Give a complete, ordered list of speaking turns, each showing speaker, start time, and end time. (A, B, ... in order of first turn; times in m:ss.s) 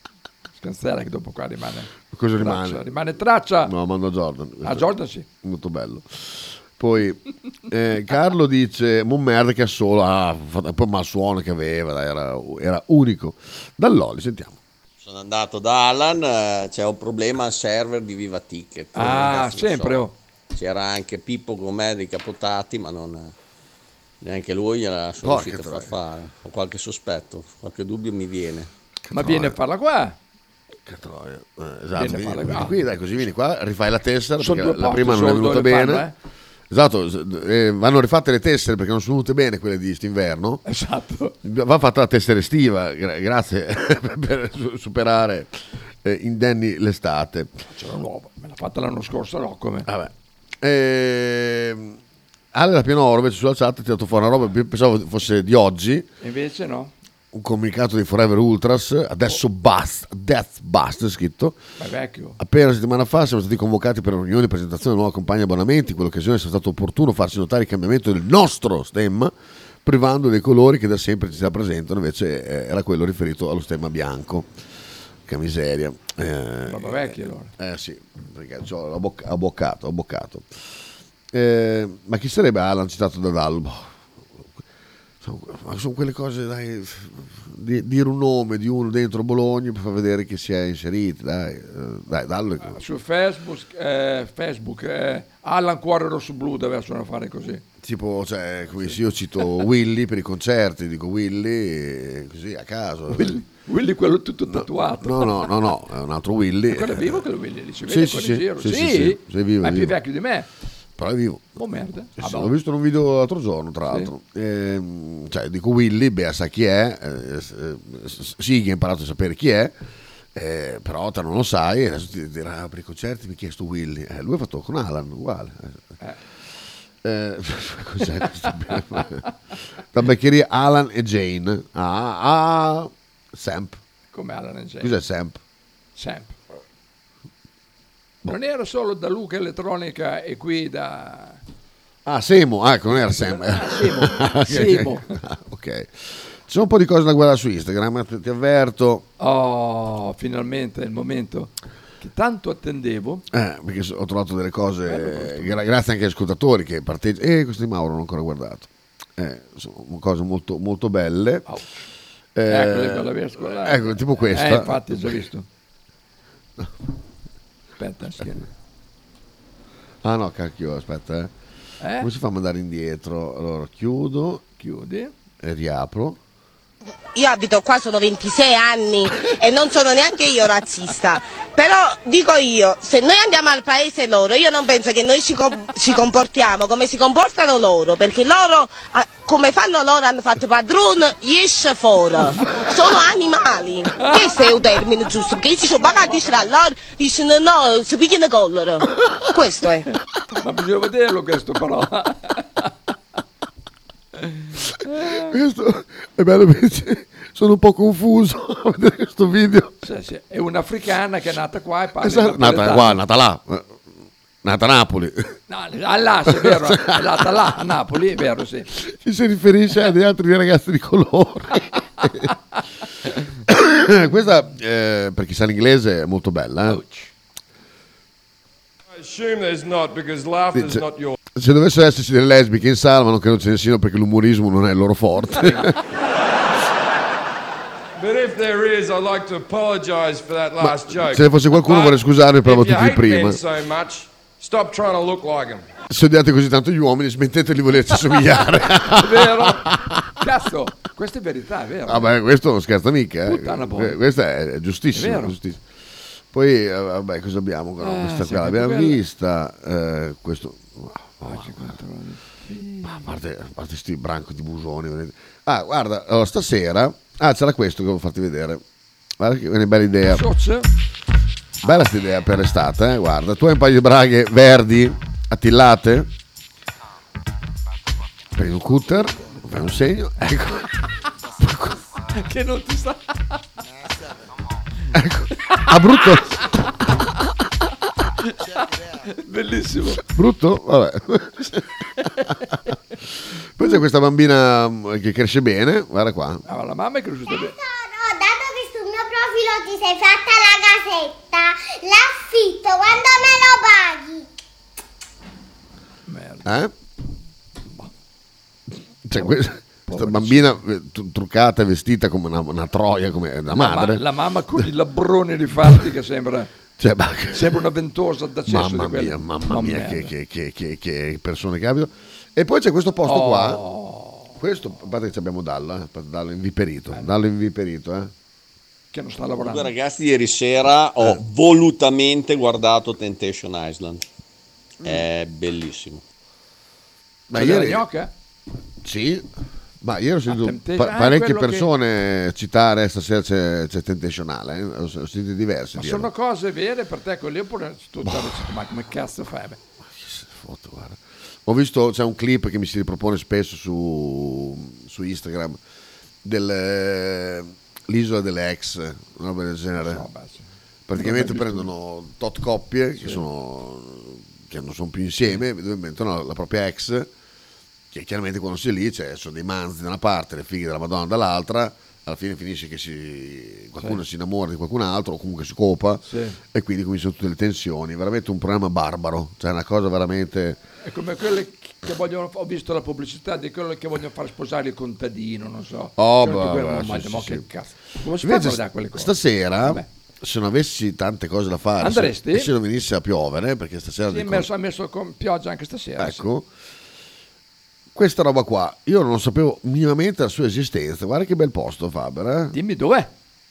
0:00.6-0:03.7 A
0:02.1-0:02.8 B
0:03.6-0:04.9 B
0:04.6-0:05.3 A
0:05.4-0:14.6 B
0:15.0-0:23.3 C
0:19.0-0:20.1 A
0:24.2-0:28.7 C
0:25.2-0:25.9 B
0:29.1-0:29.6 B
0:29.1-0:30.2 A
0:30.8-0:36.1 B
0:32.0-0:32.8 A
0:34.4-0:36.1 A
0:36.7-0:40.6 B
0:40.7-0:41.4 A
0:41.4-0:47.5 B
0:47.7-0:49.9 A
0:49.9-0:52.0 B
0:52.5-0:56.1 B
0:56.2-0:56.9 A
0:57.3-1:01.6 B
1:01.8-1:02.4 A
1:02.4-1:09.3 B
1:09.8-1:14.5 B
1:15.3-1:20.5 B
1:16.7-1:17.5 A
1:21.3-1:24.5 B
1:25.2-1:32.8 B
1:32.7-1:37.6 A
1:37.8-1:43.4 B
1:43.1-1:45.5 A
1:44.5-1:47.2 B
1:46.7-1:50.5 A
1:47.9-1:50.0 B
1:51.0-1:51.6 B
1:51.6-1:52.5 A
1:52.2-1:59.8 B
2:00.3-2:05.8 B
2:07.0-2:09.2 B
2:08.7-2:09.0 A
2:09.9-2:13.8 B
2:14.1-2:14.9 A
2:14.8-2:15.4 B
2:16.0-2:16.4 A
2:18.2-2:21.4 A
2:22.1-2:29.1 B
2:22.9-2:25.1 A
2:29.2-2:33.2 A
2:33.3-2:41.5 B
2:34.9-2:35.6 A
2:42.4-2:45.1 B
2:42.5-2:45.5 A
2:47.8-2:48.5 A
2:50.0-2:51.3 B
2:51.8-2:52.1 A
2:52.0-2:54.4 B
2:54.6-2:55.1 A
2:55.4-2:56.2 B
2:57.2-3:19.9 D
3:20.3-3:22.7 A
3:25.0-3:25.2 A
3:25.0-3:29.7 B
3:29.8-3:33.0 A
3:32.0-3:33.8 B
3:34.4-3:35.3 B
3:35.5-3:38.7 A
3:36.3-3:37.0 B
3:38.8-3:42.3 B
3:43.5-3:46.8 B
3:46.7-3:47.1 A
3:48.9-3:51.2 E
3:50.5-3:55.8 B
3:55.4-3:55.6 A
3:58.0-4:05.6 E
4:00.6-4:03.4 B
4:05.9-4:10.1 B
4:08.9-4:09.7 A
4:10.2-4:12.1 A
4:11.8-4:15.6 B
4:13.3-4:14.0 A
4:14.9-4:15.4 A
4:16.3-4:21.7 B
4:17.8-4:19.0 A
4:21.2-4:23.1 A
4:22.8-4:28.6 B
4:29.2-4:30.2 B
4:30.1-4:30.7 A
4:31.6-4:36.1 B
4:38.4-4:40.7 B
4:41.4-4:41.8 B
4:42.2-4:43.3 A
4:44.9-4:46.3 B
4:48.5-4:50.0 A
4:50.0-4:51.6 B
4:53.6-4:56.4 B
4:56.5-4:57.6 A
4:57.3-5:04.3 F
5:06.1-5:06.5 A
5:06.4-5:06.7 B
5:09.1-5:14.0 B
5:09.2-5:10.5 A
5:13.5-5:16.5 A
5:16.8-5:17.6 B
5:17.3-5:20.1 A
5:18.5-5:23.6 B
5:23.1-5:24.4 A
5:24.4-5:28.1 B
5:28.9-5:29.7 A
5:29.4-5:34.0 C
5:34.8-5:36.0 C
5:37.3-5:37.8 B
5:37.3-5:38.1 A
5:38.8-5:39.3 B
5:39.8-5:46.1 B
5:40.3-5:41.7 A
5:45.8-5:49.6 A
5:48.0-5:48.4 B
5:49.9-5:55.6 B
5:56.2-6:00.0 B
5:59.8-6:01.7 A
6:00.9-6:07.1 B
6:07.9-6:20.6 B
6:16.1-6:16.4 A
6:20.8-6:29.9 A
6:26.0-6:27.4 B
6:28.2-6:34.5 B
6:31.8-6:32.5 A
6:34.1-6:36.3 A
6:36.0-6:36.5 B
6:37.9-6:42.6 B
6:42.5-6:43.1 A